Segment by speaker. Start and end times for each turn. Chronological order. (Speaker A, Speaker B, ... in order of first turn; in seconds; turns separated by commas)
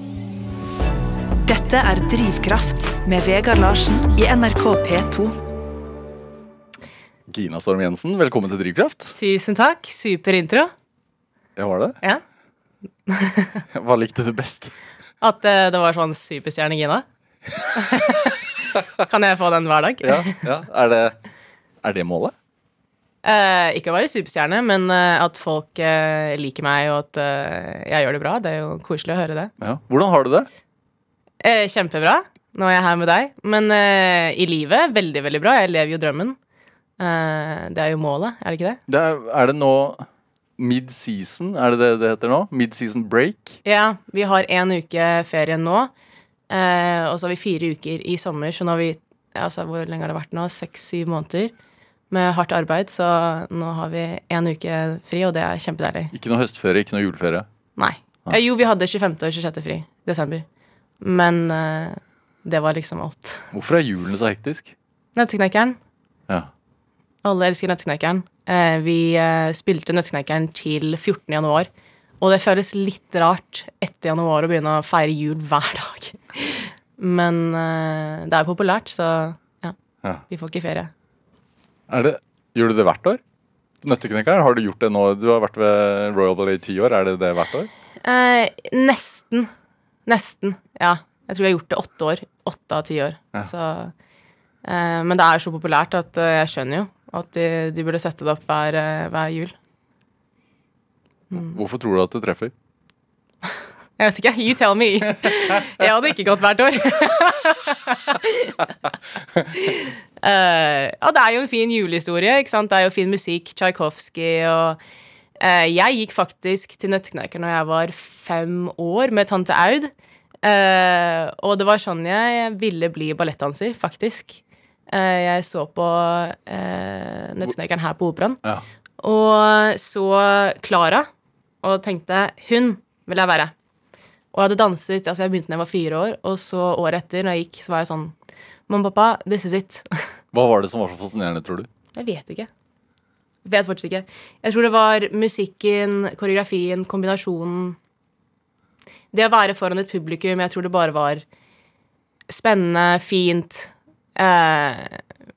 Speaker A: 1.4-5.3, Speaker B: 7.3-9.2, Speaker C: 9.1-10.7, Speaker B: 11.6-12.0, Speaker C: 13.1-13.6, Speaker B: 13.7-14.7, Speaker C: 15.2-17.0, Speaker C: 17.7-18.4, Speaker C: 19.0-20.5, Speaker B: 20.0-21.1, Speaker B: 21.8-22.3, Speaker C: 23.2-29.5, Speaker B: 29.6-30.5, Speaker C: 31.4-36.4, Speaker C: 37.0-38.8, Speaker B: 38.9-40.1, Speaker B: 40.6-43.6, Speaker C: 43.6-45.9, Speaker C: 46.5-51.5, Speaker C: 52.1-56.1, Speaker B: 56.1-57.5, Speaker C: 57.8-60.4, Speaker C: 61.0-63.5, Speaker B: 63.5-64.7, Speaker C: 65.1-65.8, Speaker C: 67.2-79.8, Speaker C: 80.3-80.9, Speaker B: 81.9-83.2, Speaker B: 83.8-87.7, Speaker C: 88.0-89.5, Speaker C: 90.0-93.9, Speaker C: 94.6-99.5, Speaker B: 101.3-102.5, Speaker C: 104.0-108.6, Speaker C: 109.5-114.8, Speaker C: 115.4-119.9, Speaker C: 120.4-128.4, Speaker C: 129.0-131.1, Speaker C: 131.6-133.5, Speaker C: 134.3-138.1, Speaker C: 138.7-140.1, Speaker B: 140.3-141.7, Speaker C: 141.9-142.5, Speaker C: 143.4-147.8, Speaker C: 149.1-151.2, Speaker C: 152.3-155.0